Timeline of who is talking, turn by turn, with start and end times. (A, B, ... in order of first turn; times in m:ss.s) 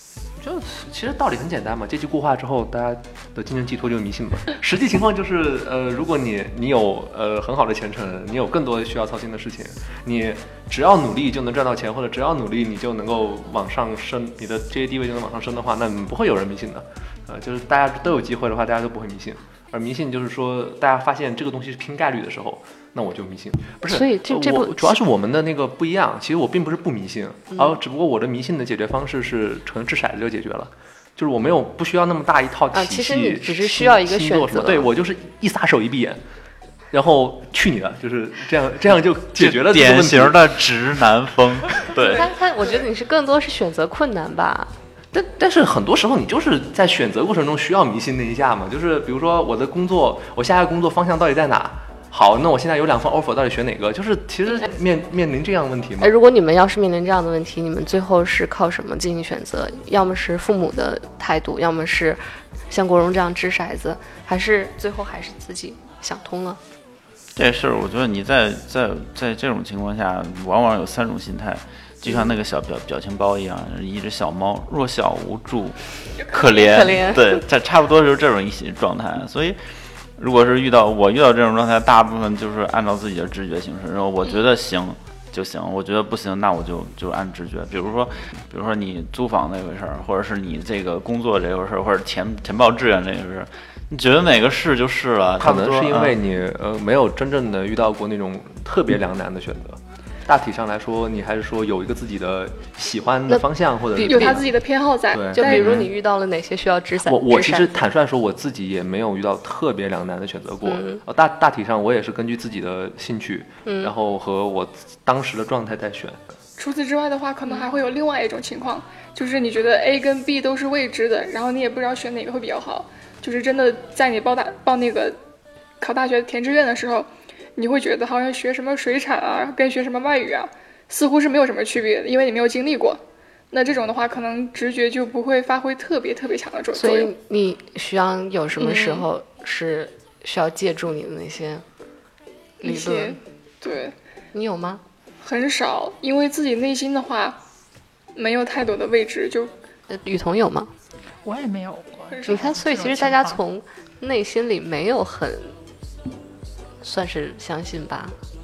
0:00.4-0:36.2 A
0:23.8-0:25.0 B
0:32.7-0:34.9 B
0:36.9-0:40.4 A
0:39.4-0:42.2 C
0:42.0-0:44.7 B
0:45.1-0:56.1 A
0:56.0-1:06.6 B
1:07.4-1:19.6 C
1:12.1-1:12.4 B
1:16.2-1:16.8 D
1:16.6-1:17.4 B
1:20.2-1:36.2 C
1:35.4-1:44.5 A
1:44.0-1:44.4 B
1:44.0-1:45.8 D
1:45.1-1:45.9 A
1:45.3-1:47.8 B
1:47.1-1:56.2 A
1:50.6-1:51.0 B
1:53.6-1:53.9 B
1:56.6-2:05.2 D
2:05.8-2:13.0 D
2:13.5-2:17.1 D
2:16.7-2:21.6 B
2:18.6-2:19.1 D
2:22.6-2:23.9 D
2:22.6-2:23.2 B
2:24.3-2:24.8 B
2:25.2-2:27.4 D
2:28.2-2:29.5 D
2:29.9-2:30.7 B
2:31.2-2:33.4 E
2:32.1-2:32.4 D
2:32.3-2:35.6 B
2:36.8-2:38.2 B